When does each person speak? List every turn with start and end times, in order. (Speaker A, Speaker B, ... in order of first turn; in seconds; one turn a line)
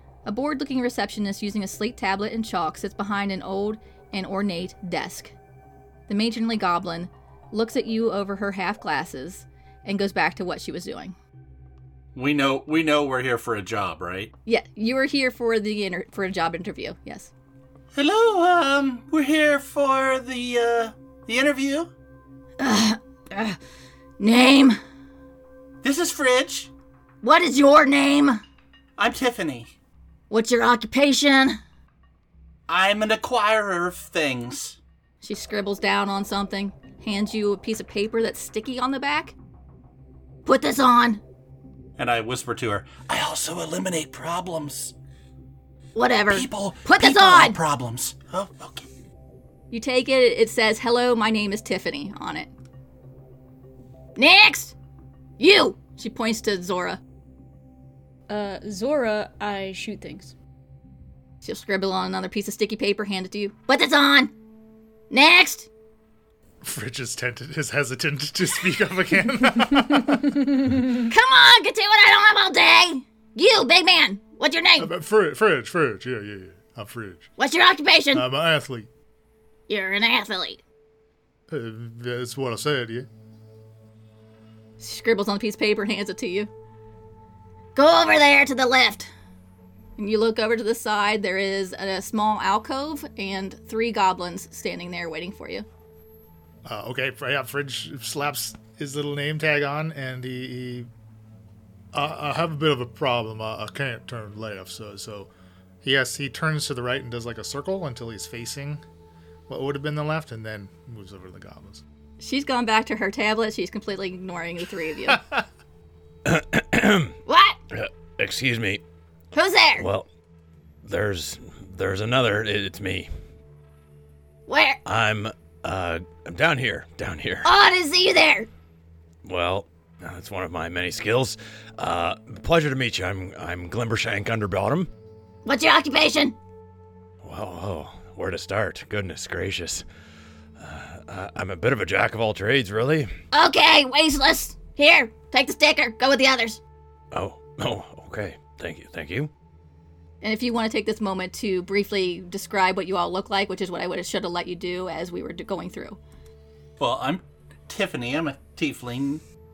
Speaker A: 0.3-5.3
Speaker A: 6.1-11.2
Speaker B: 12.2-14.3
Speaker A: 14.5-17.3
Speaker B: 17.9-21.9
Speaker A: 22.6-23.6
Speaker A: 24.2-24.8
Speaker B: 25.8-26.7
Speaker A: 27.2-28.4
Speaker B: 29.0-29.7
Speaker A: 30.3-31.6
Speaker B: 32.7-34.8
Speaker A: 35.2-39.4
Speaker A: 40.5-41.2
Speaker B: 42.0-44.9
Speaker A: 46.0-47.6
Speaker B: 46.3-48.9
Speaker A: 49.7-52.5
Speaker A: 54.2-54.8
Speaker A: 55.4-57.0
Speaker C: 58.3-60.3
Speaker A: 61.4-64.3
Speaker A: 65.1-65.7
Speaker D: 66.6-70.4
Speaker A: 71.0-74.9
Speaker D: 74.8-77.3
Speaker A: 77.4-78.2
Speaker D: 78.1-78.9
Speaker A: 79.7-80.6
Speaker D: 81.5-83.1
Speaker A: 84.8-86.5
Speaker A: 87.8-89.1
Speaker A: 90.0-95.7
Speaker D: 96.7-100.9
Speaker D: 101.9-105.3
Speaker D: 105.8-108.8
Speaker D: 109.5-111.8
Speaker A: 112.2-115.2
Speaker D: 115.1-115.4
Speaker E: 116.2-117.2
Speaker A: 117.3-117.6
Speaker E: 117.7-118.8
Speaker A: 119.3-119.9
Speaker E: 119.8-120.1
Speaker E: 120.8-123.1
Speaker A: 124.5-124.8
Speaker E: 124.8-127.5
Speaker A: 127.4-128.5
Speaker E: 129.2-134.9
Speaker A: 135.5-136.4
Speaker E: 137.2-139.8
Speaker E: 140.6-143.2
Speaker A: 143.3-146.6
Speaker E: 147.1-149.3
Speaker A: 150.2-156.0
Speaker B: 156.8-159.2